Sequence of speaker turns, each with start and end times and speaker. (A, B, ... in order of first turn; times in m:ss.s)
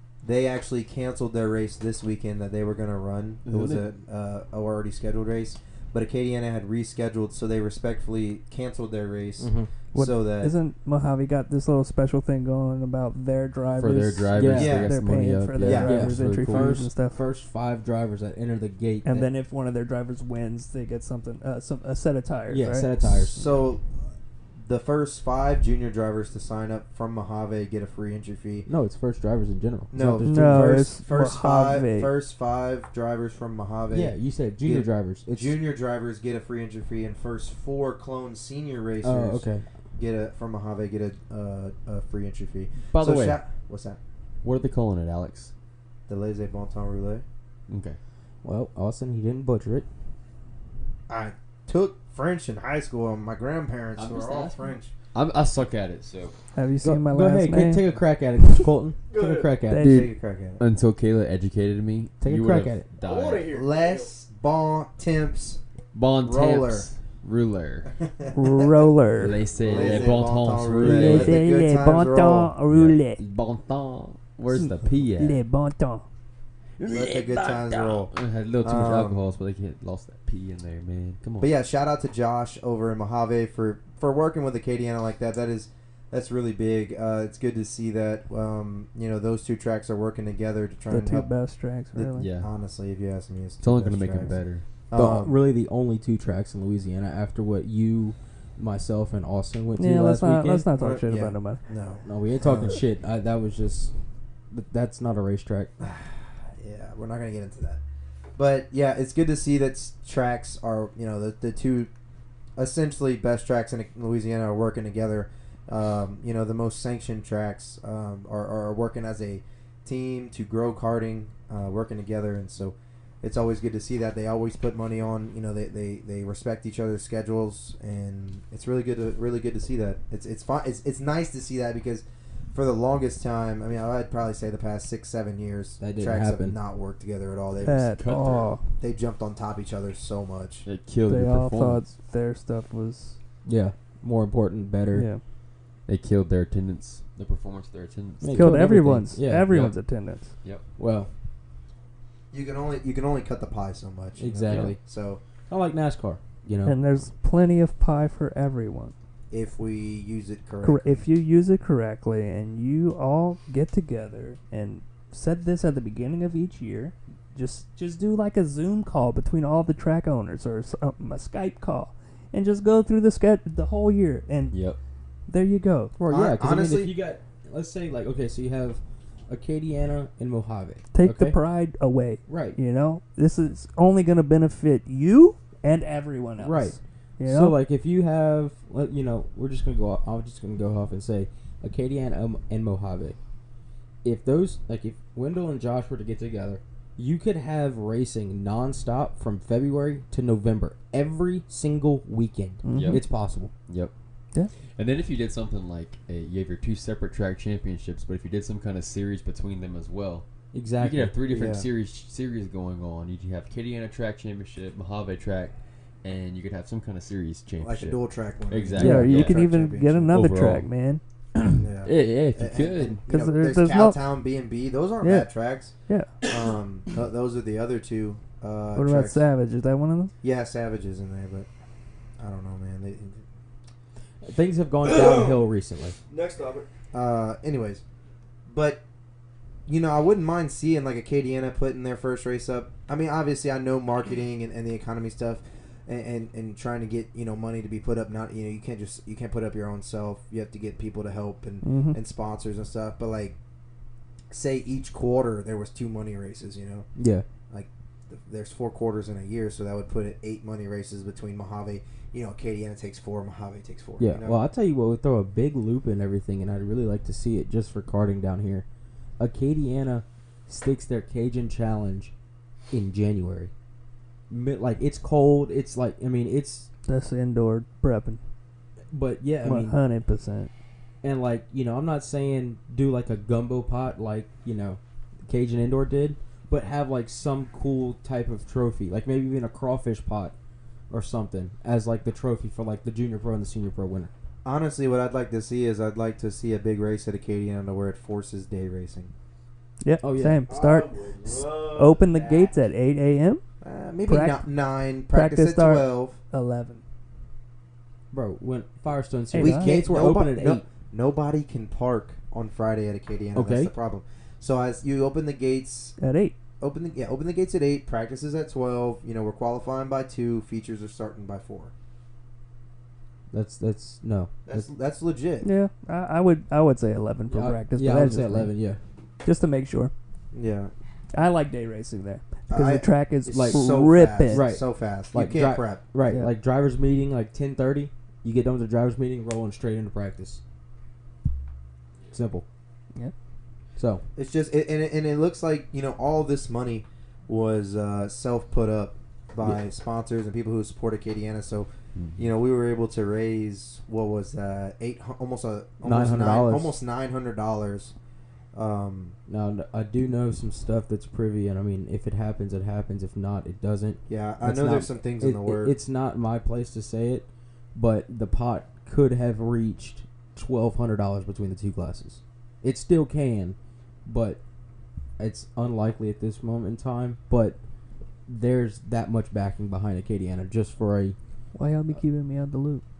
0:00.2-0:10.5 A
0:03.5-0:03.9 B
0:09.4-0:09.7 C
0:09.9-0:17.2 D
0:13.8-0:16.8 B
0:14.3-0:14.8 C
0:14.5-0:14.9 A
0:15.6-0:16.0 A
0:15.7-0:19.3 C
0:19.0-0:23.4 D
0:22.5-0:23.4 C
0:23.4-0:23.8 A
0:24.6-0:28.7 A
0:28.7-0:30.7 C
0:29.9-0:44.0 A
0:30.2-0:32.1 D
0:33.9-0:35.6 C
0:39.0-0:39.7 C
0:42.9-0:43.4 B
0:44.4-0:45.5 B
0:46.1-0:47.2 A
0:47.7-0:48.0 B
0:48.4-0:49.9 C
0:51.1-0:54.9 A
0:54.0-0:54.6 B
0:55.1-0:56.4 B
0:56.6-0:57.9 D
0:56.8-0:59.9 C
0:59.1-0:59.6 E
0:59.7-1:00.1 D
0:59.8-1:00.6 A
0:59.8-1:03.5 B
1:02.2-1:02.9 C
1:03.0-1:04.1 E
1:03.5-1:05.6 A
1:05.9-1:07.9 B
1:06.2-1:06.9 A
1:08.0-1:08.9 A
1:08.3-1:09.4 D
1:09.2-1:11.4 B
1:09.5-1:12.5 A
1:10.8-1:13.2 D
1:12.7-1:15.4 B
1:14.5-1:16.0 D
1:16.8-1:21.5 B
1:16.9-1:19.2 A
1:21.4-1:31.3 A
1:30.9-1:32.3 D
1:31.9-1:34.4 A
1:32.2-1:32.5 B
1:33.6-1:34.6 B
1:34.9-1:35.4 A
1:34.9-1:40.7 C
1:39.8-1:41.6 D
1:40.8-1:42.8 A
1:42.0-1:43.9 C
1:44.5-1:45.7 C
1:45.8-1:47.8 A
1:48.4-1:51.9 A
1:52.6-2:18.0 A
2:15.8-2:16.6 C
2:17.6-2:18.6 D
2:17.7-2:18.5 B
2:18.8-2:20.7 A
2:20.6-2:21.8 B
2:21.0-2:23.2 D
2:23.5-2:25.1 C
2:24.9-2:25.2 D
2:25.9-2:28.6 B
2:28.2-2:29.7 C
2:28.3-2:30.4 D
2:30.8-2:31.1 C
2:32.3-2:35.2 A
2:34.2-2:34.8 C
2:35.5-2:36.8 C
2:36.6-2:38.9 D
2:39.3-2:41.0 A
2:40.6-2:54.6 D
2:54.5-2:54.8 B
2:55.3-2:55.9 D
2:56.0-3:01.4 C
2:56.1-2:56.9 A
3:00.9-3:07.6 D
3:02.3-3:02.6 C
3:06.4-3:13.2 C
3:14.0-3:23.5 C
3:22.6-3:23.0 D
3:22.7-3:23.0 B
3:24.8-3:30.3 B
3:30.5-3:31.2 C
3:30.8-3:39.4 B
3:31.3-3:31.7 A
3:37.6-3:40.1 A
3:38.8-3:41.0 D
3:40.1-3:40.7 B
3:41.4-3:43.0 B
3:41.6-3:49.2 A
3:43.1-3:44.0 D
3:45.0-3:45.3 D
3:45.9-3:46.2 D
3:48.8-3:50.1 D
3:50.2-3:51.5 A
3:52.2-3:53.2 A
3:54.2-3:56.0 C
3:54.8-3:55.4 E
3:56.1-3:56.7 E
3:56.9-3:57.8 A
3:58.5-3:58.8 A
3:59.7-4:13.4 A
4:11.6-4:12.0 D
4:14.3-4:16.9 A
4:17.0-4:17.2 C
4:17.5-4:24.4 A
4:24.0-4:28.6 C
4:29.2-4:32.1 C
4:32.7-4:33.5 C
4:34.3-4:36.7 C
4:36.9-4:38.2 D
4:38.9-4:39.8 C
4:39.4-4:40.5 D
4:41.0-4:50.3 C
4:50.9-4:54.1 C
4:54.4-4:59.1 A
4:59.8-5:03.4 D
5:00.0-5:00.5 C
5:00.5-5:02.6 E
5:03.6-5:06.2 A
5:04.1-5:04.5 D
5:05.1-5:06.8 D
5:08.1-5:10.6 C
5:09.3-5:10.0 D
5:09.4-5:16.0 A
5:13.4-5:13.7 C
5:16.0-5:16.4 D
5:16.6-5:21.7 A
5:23.3-5:24.7 C
5:24.5-5:25.5 A
5:25.4-5:28.6 D
5:27.3-5:28.8 C
5:29.2-5:29.9 D
5:30.3-5:30.7 A
5:31.1-5:34.5 D
5:32.5-5:35.9 A
5:33.3-5:33.6 C
5:34.3-5:40.4 C
5:36.0-5:36.3 D
5:42.1-5:42.4 C
5:43.8-5:44.0 C
5:44.2-5:57.9 A
5:52.0-5:52.2 B
5:55.8-5:56.8 C
5:58.5-5:59.2 A
5:59.3-6:14.4 C
6:04.1-6:05.8 A
6:15.2-6:17.6 C
6:18.3-6:21.2 C
6:21.5-6:22.8 D